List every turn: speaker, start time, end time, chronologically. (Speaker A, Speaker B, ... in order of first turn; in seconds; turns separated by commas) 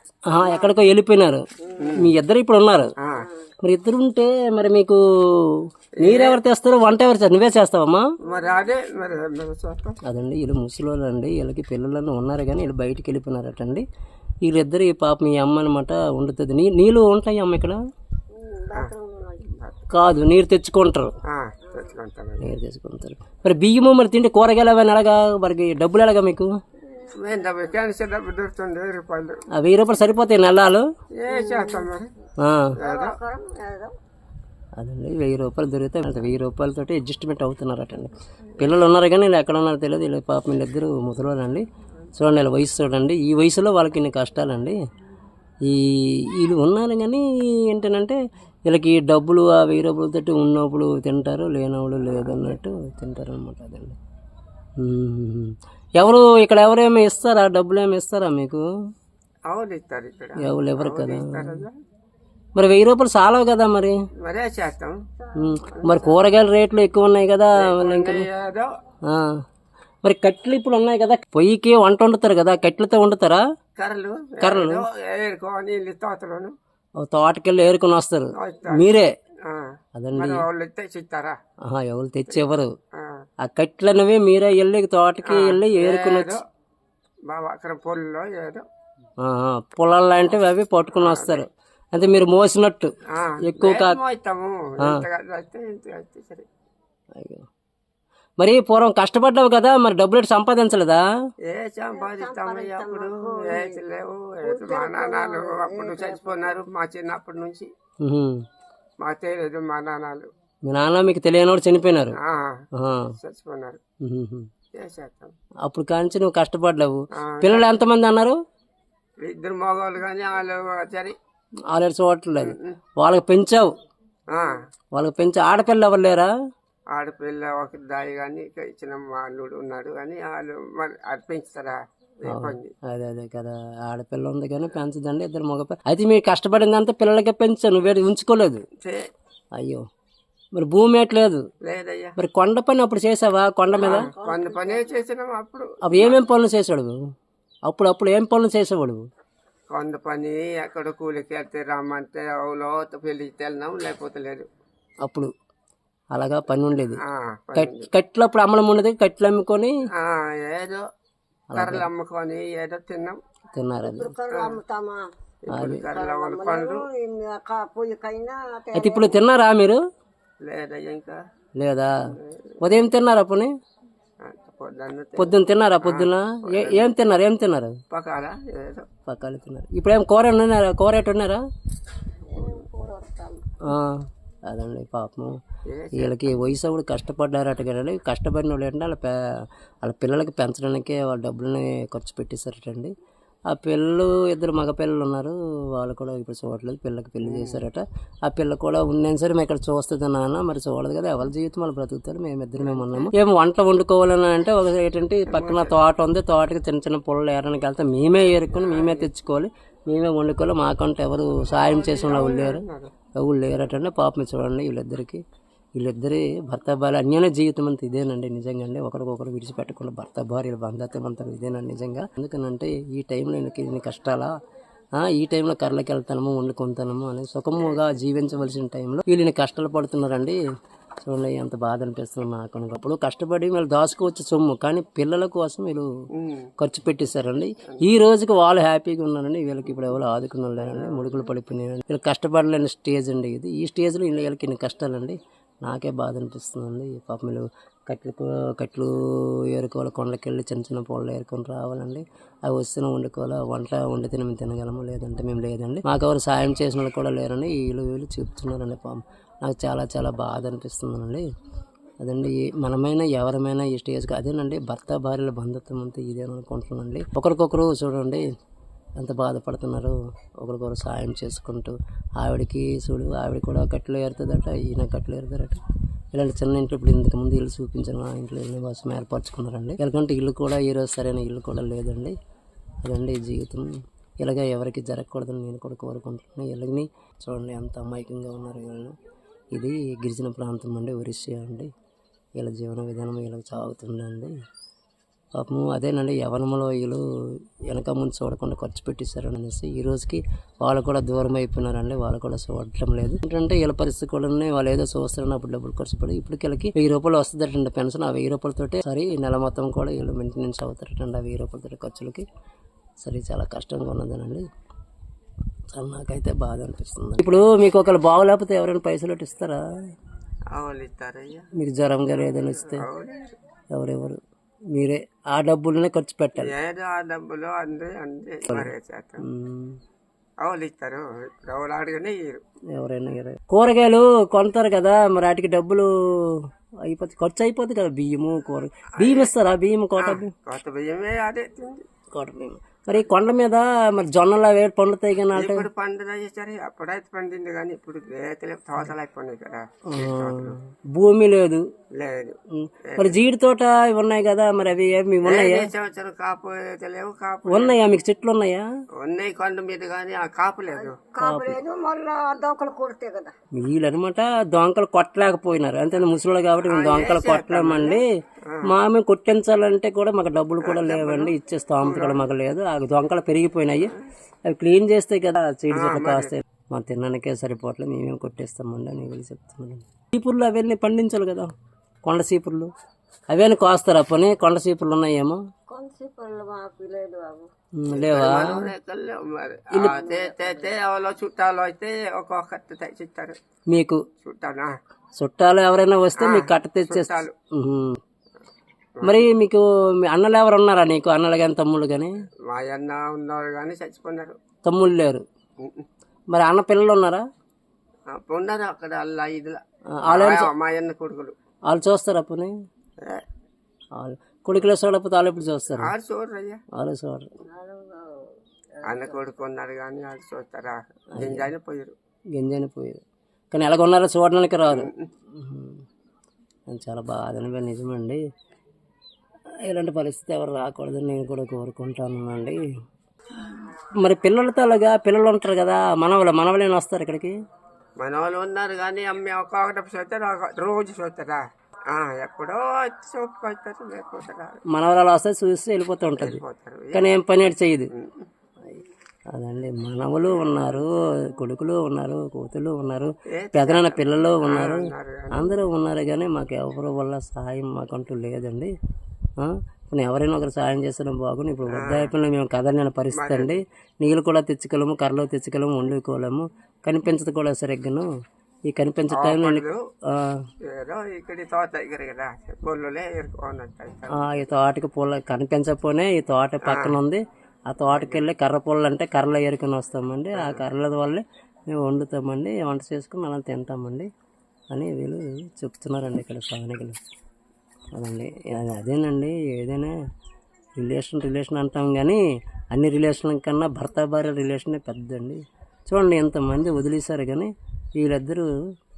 Speaker A: 0.3-1.4, Speaker B: 0.3-0.7, Speaker B: 1.6-1.9, Speaker C: 1.8-2.1, Speaker A: 1.9-2.9, Speaker C: 3.0-3.2, Speaker B: 3.2-3.5, Speaker A: 3.6-8.0, Speaker C: 6.0-6.4, Speaker C: 8.2-10.0, Speaker B: 8.3-8.7, Speaker A: 10.0-13.8, Speaker A: 14.4-17.8, Speaker B: 18.3-19.4, Speaker C: 19.5-19.8, Speaker A: 19.9-21.1, Speaker C: 21.3-22.5, Speaker B: 21.6-21.9, Speaker A: 22.4-26.5, Speaker B: 26.8-27.7, Speaker C: 27.1-29.4, Speaker A: 29.5-30.8, Speaker C: 31.2-32.1, Speaker B: 31.3-31.9, Speaker A: 32.4-32.7, Speaker C: 32.8-33.2, Speaker B: 32.8-33.9, Speaker A: 34.8-44.8, Speaker A: 45.6-54.0, Speaker C: 52.0-52.6, Speaker A: 54.8-58.6, Speaker C: 59.5-61.7, Speaker A: 60.4-61.6, Speaker A: 62.5-64.0, Speaker C: 64.2-65.0, Speaker B: 65.2-66.2, Speaker A: 65.3-68.3, Speaker C: 67.6-68.7, Speaker A: 69.0-69.4, Speaker A: 70.0-73.4, Speaker C: 73.8-76.5, Speaker A: 74.4-74.8, Speaker A: 77.0-79.1, Speaker C: 78.3-78.9, Speaker C: 79.5-81.3, Speaker A: 80.0-80.4, Speaker A: 81.7-82.7, Speaker C: 83.0-83.2, Speaker A: 83.4-86.4, Speaker C: 85.2-86.4, Speaker C: 87.3-88.6, Speaker A: 89.2-94.0, Speaker C: 90.9-91.5, Speaker C: 93.1-96.5, Speaker A: 97.2-97.5, Speaker A: 98.4-101.0, Speaker C: 101.5-107.7, Speaker B: 101.9-103.8, Speaker B: 104.4-106.6, Speaker A: 108.0-108.4, Speaker C: 109.0-110.3, Speaker A: 110.6-112.2, Speaker C: 112.1-112.6, Speaker A: 112.7-113.1, Speaker C: 113.2-113.8, Speaker A: 114.0-114.5, Speaker C: 114.8-115.3, Speaker A: 115.6-118.4, Speaker C: 117.2-117.8, Speaker C: 119.2-121.1, Speaker A: 121.7-123.7, Speaker C: 122.4-122.8, Speaker C: 124.3-124.6, Speaker A: 124.9-126.3, Speaker C: 126.9-132.7, Speaker A: 132.3-138.6, Speaker A: 139.6-139.8, Speaker A: 140.5-141.4, Speaker C: 141.6-142.1, Speaker A: 142.2-144.1, Speaker C: 143.8-146.2, Speaker B: 143.8-145.0, Speaker A: 145.8-146.9, Speaker A: 147.7-149.0, Speaker C: 149.7-154.5, Speaker A: 155.0-155.3, Speaker A: 156.1-157.0, Speaker C: 157.0-157.9, Speaker A: 157.5-159.7, Speaker C: 160.0-160.8, Speaker A: 161.5-161.9, Speaker C: 161.5-163.2, Speaker A: 163.5-164.1, Speaker B: 163.8-165.1, Speaker C: 164.3-164.6, Speaker C: 165.5-166.8, Speaker A: 165.5-165.9, Speaker B: 165.9-169.2, Speaker A: 168.7-169.8, Speaker C: 170.4-171.2, Speaker A: 171.6-171.9, Speaker C: 172.1-172.7, Speaker A: 172.6-173.5, Speaker C: 174.2-176.9, Speaker A: 175.2-177.8, Speaker C: 177.9-178.8, Speaker A: 179.1-181.4, Speaker B: 182.3-183.6, Speaker A: 183.6-185.4, Speaker C: 185.7-186.2, Speaker A: 185.9-189.1, Speaker A: 189.8-192.9, Speaker A: 193.5-212.6, Speaker C: 197.2-197.6, Speaker C: 202.6-203.1, Speaker C: 205.3-205.8, Speaker C: 208.5-209.1, Speaker C: 211.5-212.9, Speaker A: 213.2-215.2, Speaker A: 215.8-224.3, Speaker A: 225.0-230.4, Speaker C: 227.6-227.9, Speaker A: 231.0-235.9, Speaker C: 236.1-236.5, Speaker A: 236.6-261.2, Speaker C: 240.6-241.2, Speaker A: 262.0-268.3, Speaker A: 269.0-275.6, Speaker A: 276.1-282.1, Speaker A: 282.8-283.7, Speaker A: 284.2-288.9, Speaker A: 289.5-291.7, Speaker A: 292.4-294.3, Speaker A: 295.4-297.0, Speaker A: 297.7-312.2, Speaker A: 313.0-314.4, Speaker A: 315.7-319.6, Speaker C: 320.5-321.5, Speaker A: 321.6-322.9, Speaker C: 322.2-323.3, Speaker A: 323.7-324.2, Speaker A: 324.7-326.5, Speaker C: 326.4-329.2, Speaker A: 329.2-329.8, Speaker C: 330.4-332.4, Speaker A: 332.7-340.3, Speaker C: 339.0-339.3, Speaker C: 340.0-341.8, Speaker A: 342.1-345.7, Speaker C: 345.3-350.6, Speaker A: 349.9-351.6, Speaker C: 351.9-353.2, Speaker A: 352.5-355.7, Speaker C: 355.2-357.8, Speaker A: 357.5-358.7, Speaker C: 359.0-361.0, Speaker B: 360.7-363.3, Speaker A: 361.2-361.6, Speaker A: 363.5-368.1, Speaker C: 366.6-368.7, Speaker A: 368.6-373.9, Speaker C: 370.6-372.2, Speaker A: 374.4-381.5, Speaker C: 375.7-376.3, Speaker A: 382.0-382.7, Speaker A: 383.3-385.4, Speaker B: 385.7-387.5, Speaker A: 387.8-388.7, Speaker C: 387.9-393.4, Speaker A: 389.7-390.0, Speaker B: 389.9-390.7, Speaker A: 393.7-394.0, Speaker C: 394.2-394.7, Speaker A: 395.2-398.0, Speaker C: 396.2-397.3, Speaker C: 399.0-399.3, Speaker A: 399.0-402.1, Speaker C: 402.5-404.4, Speaker A: 404.6-405.2, Speaker A: 406.3-407.2, Speaker C: 408.1-411.3, Speaker A: 409.9-410.5, Speaker A: 411.7-412.5, Speaker A: 413.9-415.9, Speaker C: 415.8-416.6, Speaker A: 416.7-417.3, Speaker B: 417.5-419.2, Speaker C: 418.8-421.9, Speaker A: 421.1-421.5, Speaker A: 422.3-425.8, Speaker C: 424.7-425.1, Speaker A: 426.7-428.2, Speaker A: 429.6-432.6, Speaker A: 433.4-437.3, Speaker C: 438.0-444.6, Speaker A: 444.7-447.9, Speaker C: 446.2-447.1, Speaker C: 447.9-448.2, Speaker A: 448.7-458.7, Speaker C: 450.3-450.9, Speaker C: 453.3-455.6, Speaker A: 459.4-468.1, Speaker C: 461.7-462.1, Speaker C: 463.1-463.6, Speaker A: 468.7-470.4, Speaker C: 469.1-469.8, Speaker C: 470.6-474.5, Speaker A: 474.1-484.1, Speaker C: 476.6-476.9, Speaker C: 477.9-478.2, Speaker C: 480.3-480.6, Speaker A: 484.7-487.0, Speaker A: 487.9-489.9, Speaker A: 490.8-492.2, Speaker A: 492.7-498.5